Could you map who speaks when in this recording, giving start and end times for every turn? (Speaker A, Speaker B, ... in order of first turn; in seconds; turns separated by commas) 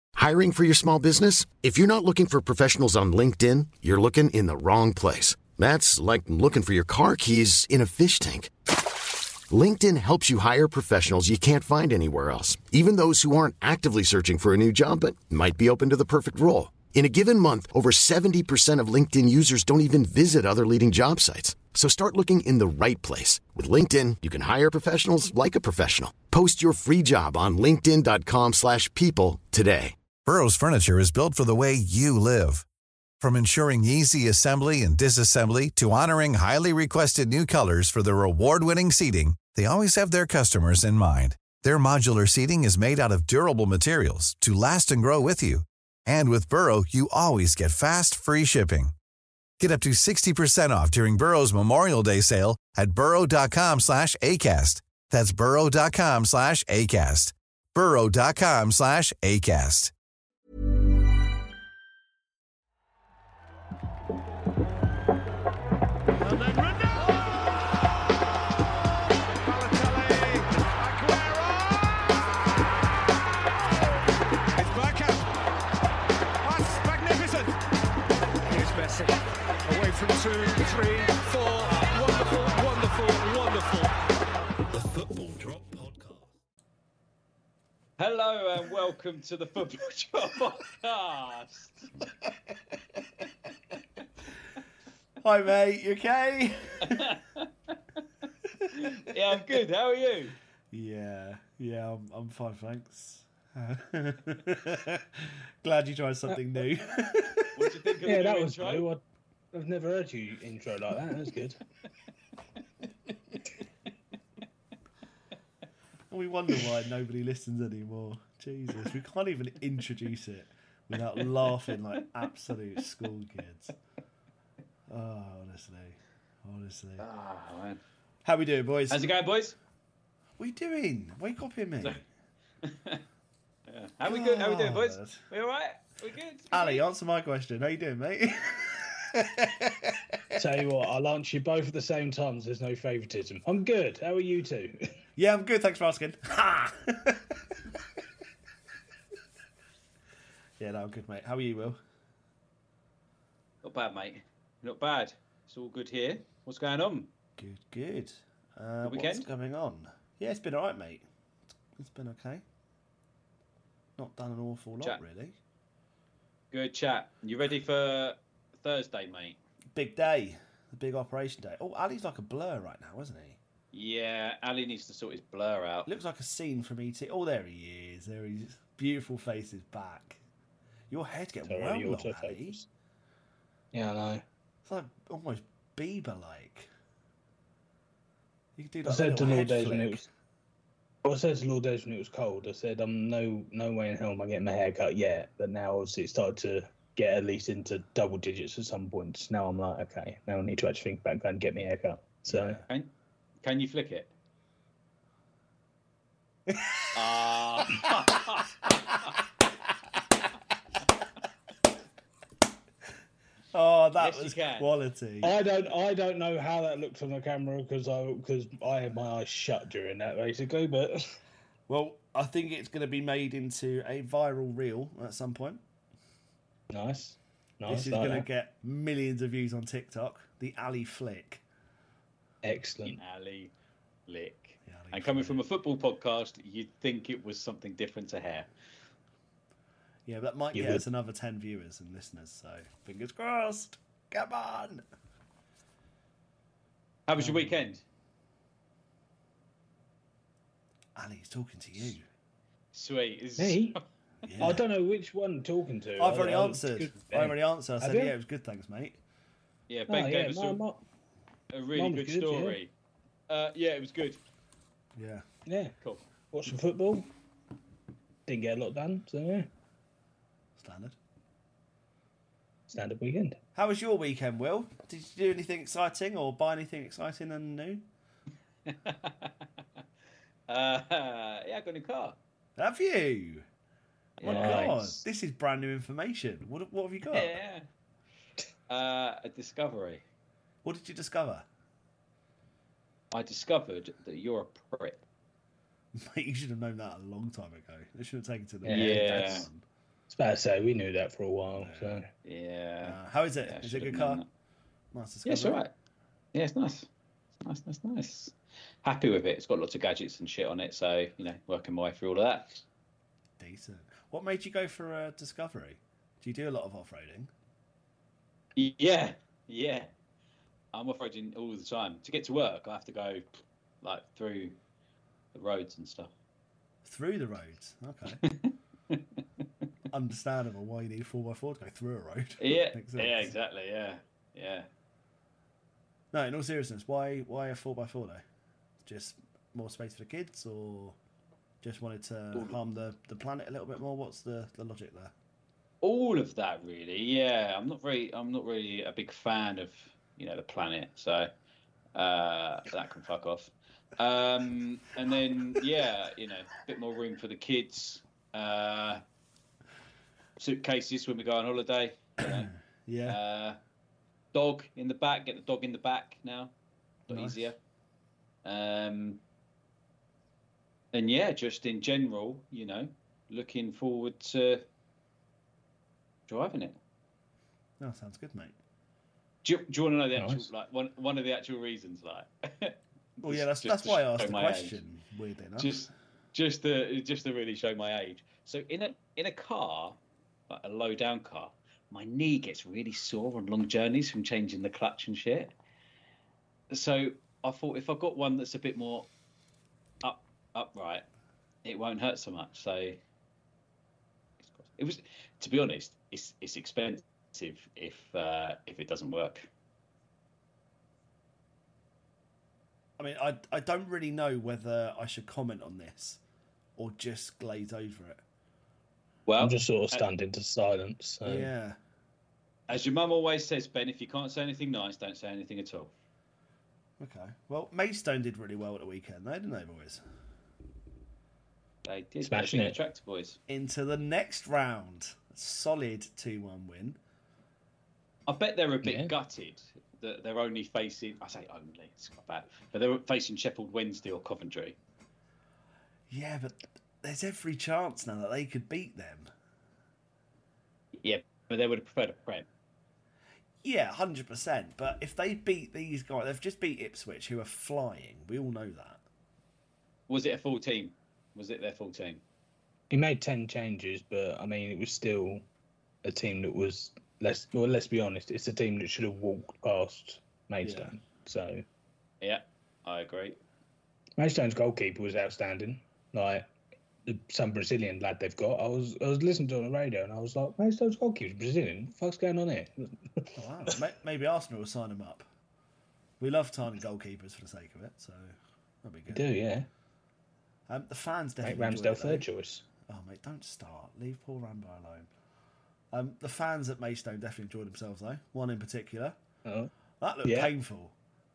Speaker A: 0.1-8.5, Speaker A: 9.5-29.9, Speaker B: 30.2-32.6, Speaker B: 33.2-48.9, Speaker B: 49.6-59.9, Speaker C: 66.2-67.5, Speaker D: 69.4-72.0, Speaker D: 74.5-75.3, Speaker D: 76.4-77.6, Speaker D: 78.4-83.9, Speaker C: 84.7-86.3, Speaker E: 88.0-91.9, Speaker C: 92.3-93.0, Speaker C: 95.2-97.2, Speaker E: 96.8-97.5, Speaker E: 98.7-100.3, Speaker C: 100.7-107.6, Speaker E: 107.5-108.9, Speaker F: 108.0-109.0, Speaker F: 109.5-111.6, Speaker C: 116.1-123.7, Speaker C: 124.9-127.0, Speaker E: 127.0-127.8, Speaker C: 128.2-129.1, Speaker E: 128.9-129.6, Speaker C: 130.4-132.0, Speaker E: 132.6-133.0, Speaker E: 133.7-136.8, Speaker C: 134.0-135.2, Speaker C: 136.5-140.2, Speaker F: 140.3-144.8, Speaker C: 145.2-147.4, Speaker C: 150.6-151.8, Speaker E: 153.6-157.1, Speaker C: 157.4-161.1, Speaker E: 158.8-159.3, Speaker C: 161.7-162.4, Speaker C: 164.0-165.4, Speaker E: 166.5-169.4, Speaker C: 169.7-173.4, Speaker E: 173.7-175.9, Speaker C: 175.8-180.2, Speaker C: 180.9-182.6, Speaker F: 181.5-182.7, Speaker F: 183.7-184.2, Speaker C: 184.7-186.7, Speaker C: 188.6-190.1, Speaker F: 188.8-190.0, Speaker F: 191.0-202.6, Speaker C: 202.3-202.7, Speaker E: 203.4-204.1, Speaker C: 206.5-206.9, Speaker E: 206.9-209.1, Speaker C: 213.5-215.3, Speaker E: 214.0-214.7, Speaker F: 215.2-221.2, Speaker C: 221.7-225.6, Speaker F: 226.7-228.3, Speaker C: 227.7-231.4, Speaker F: 232.4-233.0, Speaker E: 232.8-233.5, Speaker E: 234.1-238.5, Speaker C: 234.6-235.4, Speaker C: 240.1-244.8, Speaker F: 240.5-240.8, Speaker E: 247.1-247.8, Speaker C: 247.2-247.6, Speaker C: 250.9-252.1, Speaker E: 252.7-253.8, Speaker F: 253.4-253.8, Speaker C: 254.2-254.6, Speaker F: 254.4-258.1, Speaker C: 256.0-259.0, Speaker E: 259.7-260.6, Speaker F: 259.9-260.8, Speaker E: 261.5-262.7, Speaker F: 261.7-262.6, Speaker E: 263.3-264.2, Speaker C: 264.9-265.2, Speaker F: 265.4-265.7, Speaker F: 266.3-267.1, Speaker F: 268.3-269.5, Speaker C: 270.6-270.9, Speaker F: 272.7-273.4, Speaker C: 273.5-277.8, Speaker E: 278.6-279.4, Speaker E: 280.5-282.2, Speaker C: 282.6-283.4, Speaker E: 284.2-285.0, Speaker C: 284.2-287.4, Speaker F: 284.2-284.8, Speaker E: 287.1-287.6, Speaker E: 288.7-290.0, Speaker C: 290.6-291.4, Speaker E: 293.1-295.0, Speaker C: 295.9-299.6, Speaker F: 298.6-299.5, Speaker E: 298.7-299.4, Speaker F: 300.1-302.1, Speaker C: 301.5-302.0, Speaker E: 302.2-304.3, Speaker C: 302.8-304.2, Speaker C: 304.9-305.6, Speaker E: 305.2-305.7, Speaker E: 306.3-306.9, Speaker E: 307.4-312.6, Speaker C: 313.4-317.3, Speaker E: 318.6-319.9, Speaker E: 320.7-323.2, Speaker E: 323.8-324.6, Speaker E: 325.3-326.1, Speaker C: 326.8-328.2, Speaker E: 328.2-329.0, Speaker C: 329.9-333.3, Speaker E: 332.4-334.7, Speaker C: 336.1-338.2, Speaker C: 338.8-341.0, Speaker C: 341.6-345.1, Speaker E: 345.8-351.3, Speaker E: 351.9-359.0, Speaker E: 360.4-362.5, Speaker C: 362.2-363.2, Speaker E: 363.0-363.6, Speaker E: 364.3-366.5, Speaker C: 367.1-367.5, Speaker E: 367.1-367.6, Speaker E: 368.4-369.2, Speaker E: 370.9-374.6, Speaker E: 376.3-376.8, Speaker C: 377.8-378.6, Speaker E: 379.4-384.8, Speaker F: 380.1-380.5, Speaker C: 383.2-385.9, Speaker E: 385.6-395.5, Speaker E: 396.7-399.1, Speaker E: 400.0-401.1, Speaker E: 401.6-403.0, Speaker E: 404.5-409.5, Speaker C: 413.0-416.2, Speaker C: 416.8-418.2, Speaker E: 419.3-420.0, Speaker F: 419.4-421.5, Speaker C: 421.2-421.8, Speaker E: 422.7-425.9, Speaker C: 427.0-430.0, Speaker E: 431.8-433.4, Speaker F: 432.2-432.8, Speaker C: 433.5-437.0, Speaker E: 438.3-444.8, Speaker F: 438.8-439.1, Speaker C: 446.1-449.3, Speaker E: 450.9-452.4, Speaker C: 453.6-459.0, Speaker E: 460.1-462.2, Speaker F: 462.9-465.4, Speaker F: 466.0-471.6, Speaker C: 470.6-470.9, Speaker E: 472.2-473.4, Speaker F: 474.2-476.5, Speaker F: 477.0-483.7, Speaker C: 483.3-485.2, Speaker C: 486.2-489.3, Speaker F: 489.1-489.7, Speaker C: 490.7-492.2, Speaker F: 491.4-492.6, Speaker C: 492.9-495.1, Speaker C: 495.9-499.2, Speaker F: 499.4-499.7, Speaker C: 500.0-500.9, Speaker F: 500.2-500.5